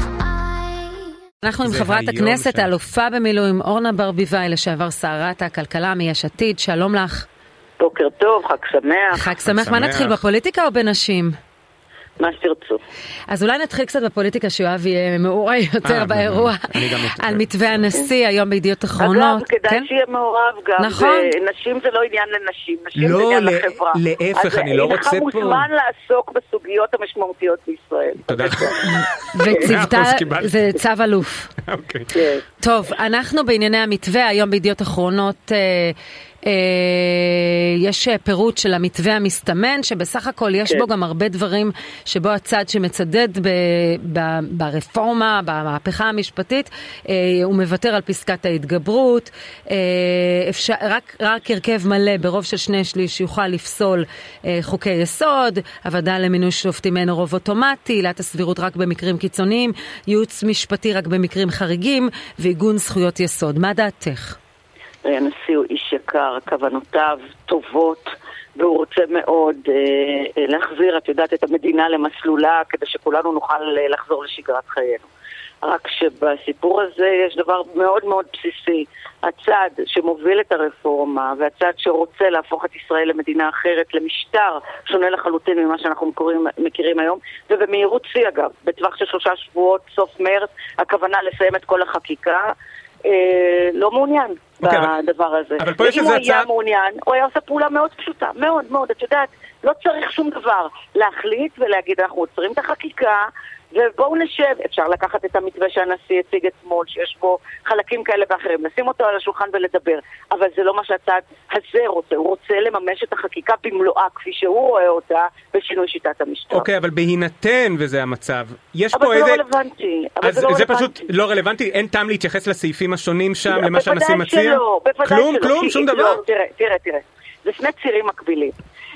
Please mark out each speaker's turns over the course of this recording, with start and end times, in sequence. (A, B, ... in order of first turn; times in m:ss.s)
0:01.4-0:07.2 A
0:01.6-0:02.7 B
0:07.8-0:09.3 C
0:09.1-0:11.3 A
0:09.4-0:10.2 B
0:12.2-0:12.8 C
0:13.3-0:19.9 A
0:15.8-0:17.9 B
0:19.0-0:28.8 C
0:20.8-0:21.3 A
0:23.0-0:25.7 B
0:28.3-0:30.8 B
0:28.8-0:31.5 A
0:29.4-0:29.7 C
0:31.6-0:32.1 B
0:32.1-0:32.4 C
0:32.6-1:04.4 A
1:05.0-1:15.1 C
1:15.6-1:32.5 C
1:33.0-1:56.7 C
1:34.6-1:34.9 B
1:35.6-1:36.5 B
1:56.5-1:59.4 B
1:58.9-2:01.1 C
2:00.2-2:06.2 B
2:03.5-2:08.6 C